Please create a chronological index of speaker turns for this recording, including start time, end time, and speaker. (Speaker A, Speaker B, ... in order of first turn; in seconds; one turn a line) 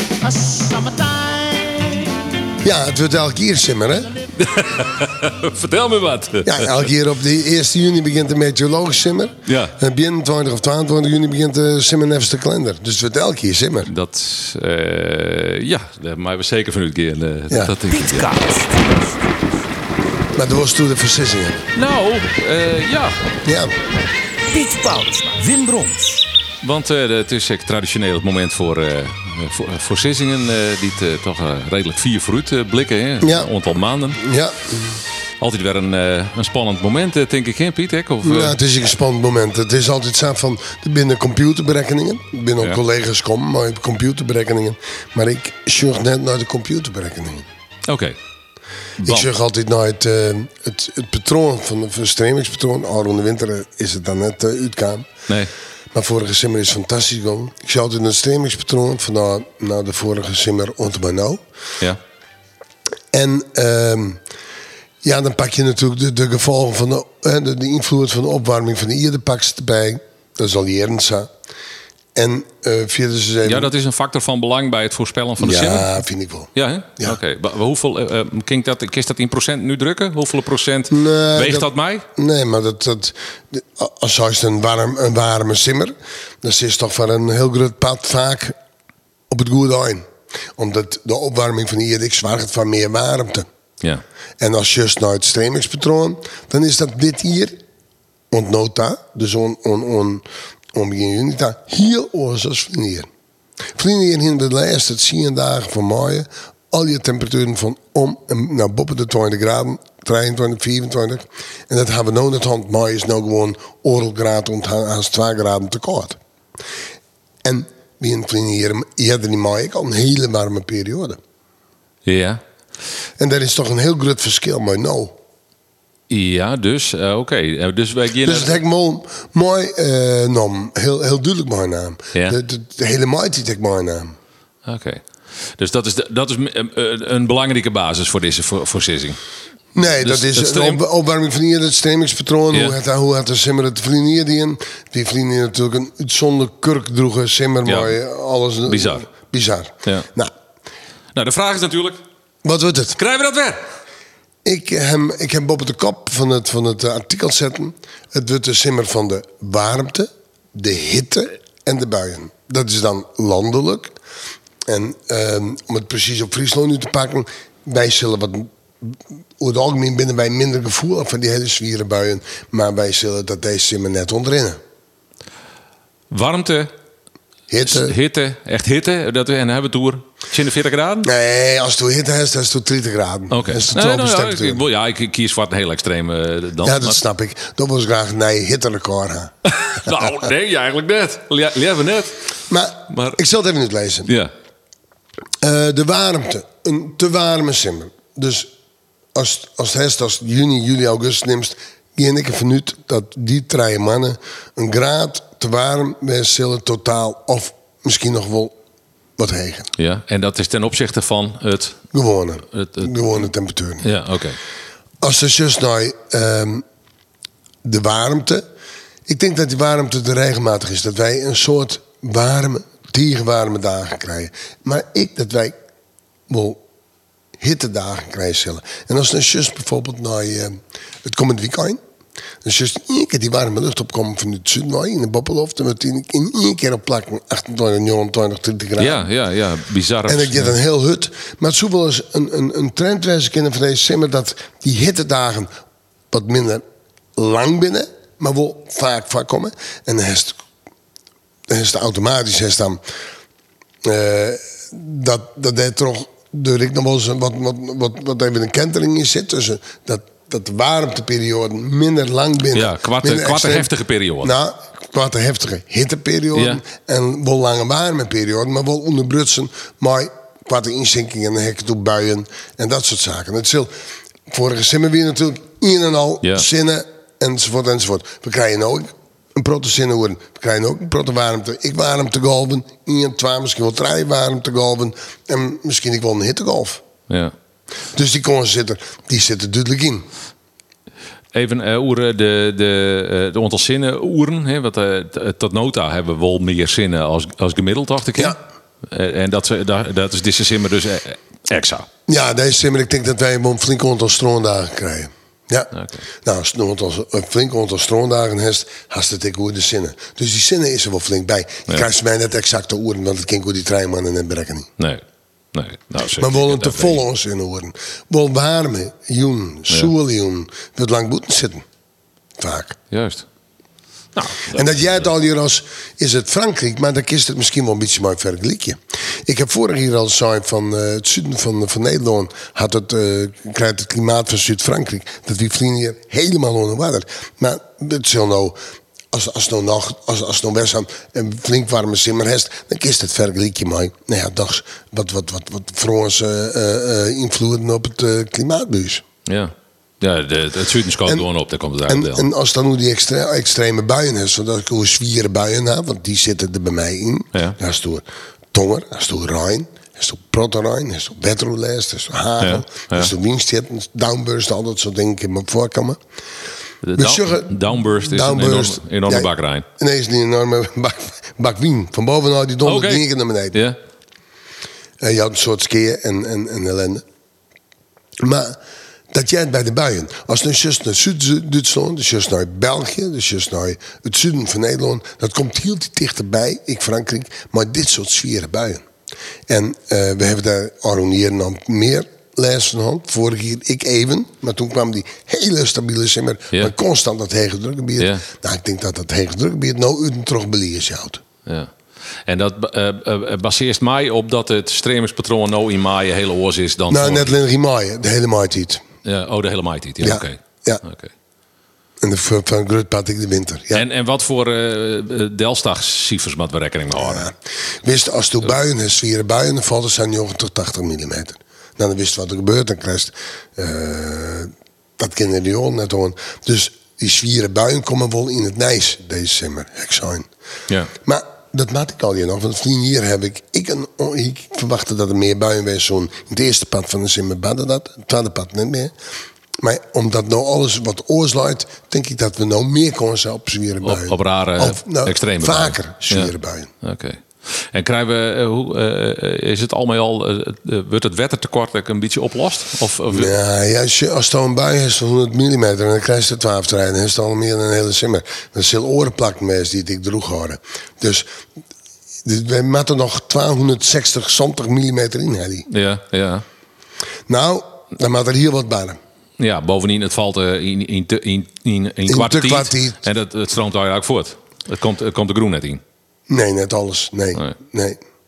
Speaker A: 0.2-2.1
Speaker B: 2.6-4.1
Speaker C: 4.4-6.9
Speaker B: 6.4-13.9
Speaker C: 9.5-9.8
Speaker C: 13.9-18.4
Speaker B: 17.5-17.8
Speaker A: 18.1-19.0
Speaker B: 20.4-21.6
Speaker C: 21.8-23.2
Speaker B: 23.4-23.7
Speaker A: 24.5-26.3
Speaker C: 26.6-34.2
Speaker B: 33.2-33.5
Speaker B: 34.2-35.0
Speaker C: 35.4-38.6
Speaker B: 38.2-47.5
Speaker C: 47.9-48.2
Speaker B: 49.0-55.1
Speaker C: 49.0-49.3
Speaker B: 55.9-61.4
Speaker B: 63.1-64.2
Speaker B: 65.0-71.3
Speaker B: 72.2-73.7
Speaker C: 73.5-76.0
Speaker B: 75.4-77.2
Speaker C: 76.5-82.1
Speaker B: 80.9-88.6
Speaker B: 89.3-93.5
Speaker B: 94.4-97.6
Speaker B: 98.3-103.1
Speaker B: 103.8-116.2
Speaker B: 117.4-121.2
Speaker C: 122.0-122.4
Speaker B: 123.2-125.2
Speaker C: 126.1-128.6
Speaker B: 128.2-134.2
Speaker C: 134.7-135.0
Speaker C: 135.6-139.2
Speaker B: 139.8-150.3
Speaker C: 139.9-140.8
Speaker C: 142.5-142.8
Speaker C: 147.7-147.9
Speaker C: 148.7-149.1
Speaker C: 151.2-152.0
Speaker B: 152.4-153.0
Speaker C: 152.9-153.6
Speaker B: 154.4-163.9
Speaker B: 164.7-174.6
Speaker C: 176.1-176.7
Speaker B: 177.5-178.0
Speaker C: 177.6-181.1
Speaker B: 181.0-184.6
Speaker C: 183.3-187.0
Speaker B: 186.6-189.3
Speaker C: 189.4-192.2
Speaker B: 192.5-194.2
Speaker C: 192.9-193.2
Speaker C: 194.1-194.3
Speaker B: 195.4-198.5
Speaker B: 199.1-208.6
Speaker B: 209.2-209.7
Speaker C: 209.8-211.8
Speaker B: 211.9-213.9
Speaker C: 212.5-213.0
Speaker C: 213.8-214.4
Speaker B: 215.0-216.7
Speaker B: 217.6-218.4
Speaker B: 219.1-225.6
Speaker B: 226.3-226.6
Speaker B: 227.4-231.8
Speaker B: 232.4-239.1
Speaker C: 238.8-240.6
Speaker B: 240.1-245.5
Speaker B: 246.1-246.6
Speaker B: 247.2-250.4
Speaker B: 251.5-252.8
Speaker B: 253.8-273.7
Speaker C: 262.5-264.3
Speaker C: 266.3-266.6
Speaker B: 274.3-286.8
Speaker C: 276.2-276.5
Speaker C: 287.1-287.3
Speaker B: 287.9-290.1
Speaker C: 291.3-301.9
Speaker B: 302.1-314.7
Speaker C: 314.8-317.0
Speaker B: 316.2-321.6
Speaker B: 322.4-322.8
Speaker C: 322.9-323.3
Speaker C: 324.1-324.9
Speaker B: 324.5-338.6
Speaker B: 339.1-349.1
Speaker C: 349.2-352.3
Speaker B: 351.9-366.0
Speaker C: 362.4-363.1
Speaker C: 366.8-369.7
Speaker B: 366.9-373.6
Speaker C: 372.6-373.8
Speaker B: 375.0-377.0
Speaker B: 378.2-378.6
Speaker B: 379.1-388.8
Speaker B: 389.5-401.2
Speaker C: 398.0-398.2
Speaker C: 401.5-401.7
Speaker C: 402.3-407.4
Speaker B: 406.9-408.8
Speaker C: 409.1-411.1
Speaker B: 410.0-410.8
Speaker B: 412.0-413.9
Speaker C: 413.7-417.3
Speaker B: 417.0-430.3
Speaker B: 431.0-438.9
Speaker B: 439.6-446.7
Speaker C: 443.8-453.3
Speaker B: 453.1-461.3
Speaker B: 462.2-465.7
Speaker C: 465.7-466.4
Speaker B: 467.3-469.0
Speaker C: 469.4-475.8
Speaker B: 472.1-473.0
Speaker B: 476.3-478.0